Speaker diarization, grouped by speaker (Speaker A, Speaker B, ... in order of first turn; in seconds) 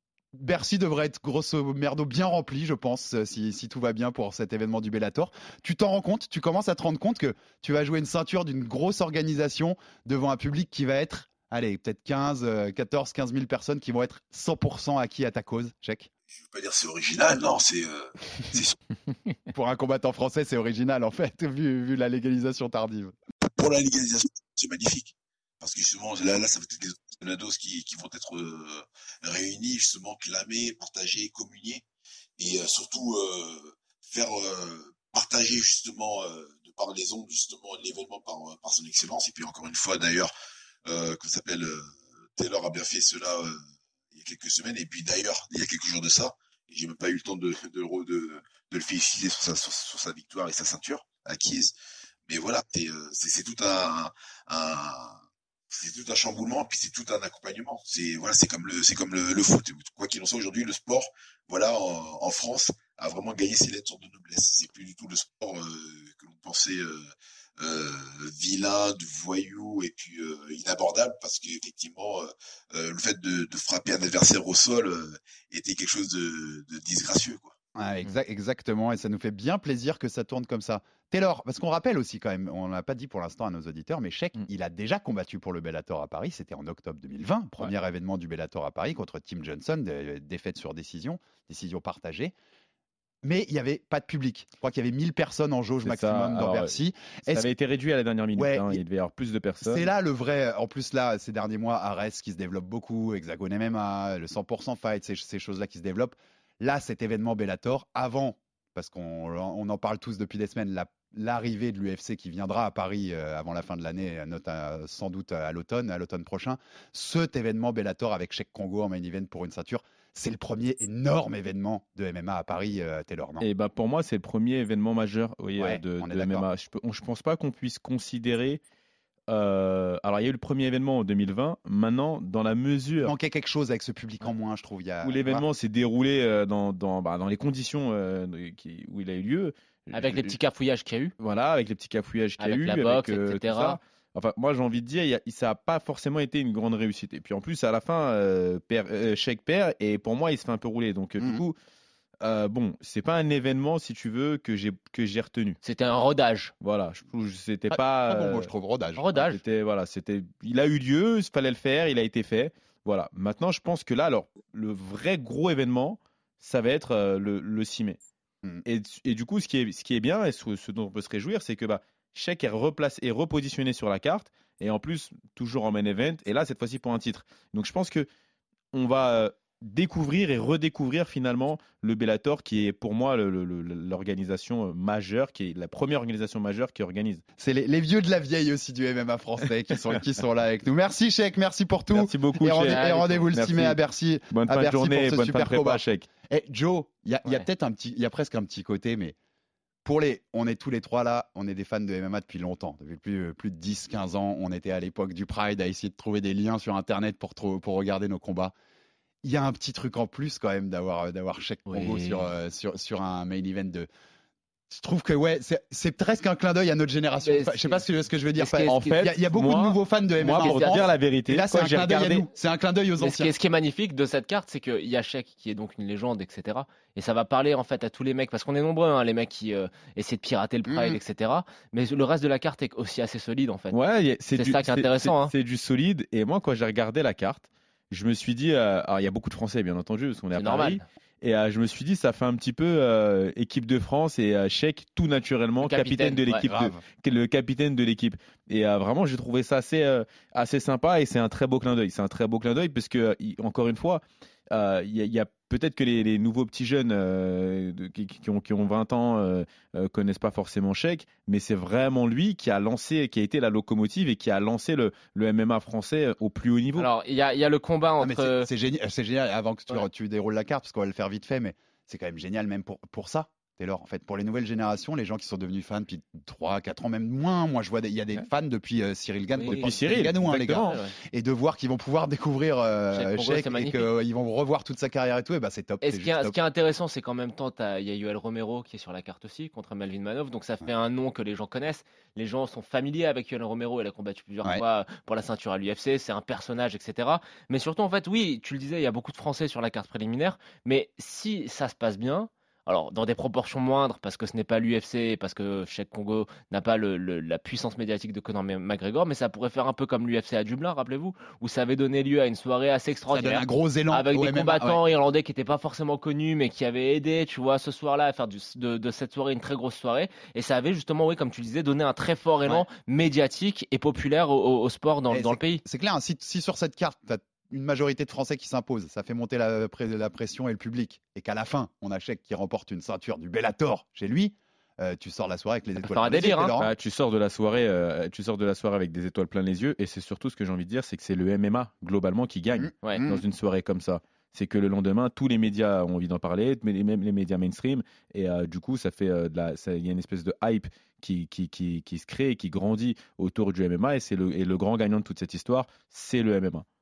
Speaker A: 0.3-16.1, 19.5-23.1, 77.7-92.3, 93.2-97.5, 98.3-98.8, 99.6-123.5, 125.6-126.5, 133.0-135.5, 151.2-151.4, 157.7-159.3, 187.4-199.2, 199.8-208.5, 209.2-213.9, 214.7-223.3, 230.7-231.0, 246.4-246.8, 268.0-286.4, 313.1-314.8, 325.1-336.7, 342.6-343.2
Speaker B: 16.3-18.8, 23.4-31.8, 32.4-40.3, 40.8-43.6, 44.1-51.7, 52.3-77.5
Speaker C: 95.8-96.7, 97.3-99.9, 123.4-128.6, 129.3-133.1, 135.0-140.3, 141.2-151.5, 152.2-155.6, 156.6-158.5, 159.2-168.0, 168.6-178.1, 178.7-187.2, 191.9-193.8, 194.3-196.1, 218.7-222.3, 233.7-266.9, 279.5-280.7, 336.5-356.6
Speaker D: 139.9-141.1, 142.4-143.8, 155.6-156.5, 159.0-159.4, 192.6-193.3, 211.7-212.2, 217.2-217.8, 218.3-219.0, 220.3-220.8, 223.0-233.8, 234.3-235.3, 240.3-240.8, 245.6-246.5, 266.8-268.5, 279.4-280.1, 280.6-280.9, 282.9-283.8, 285.8-325.6, 335.8-336.6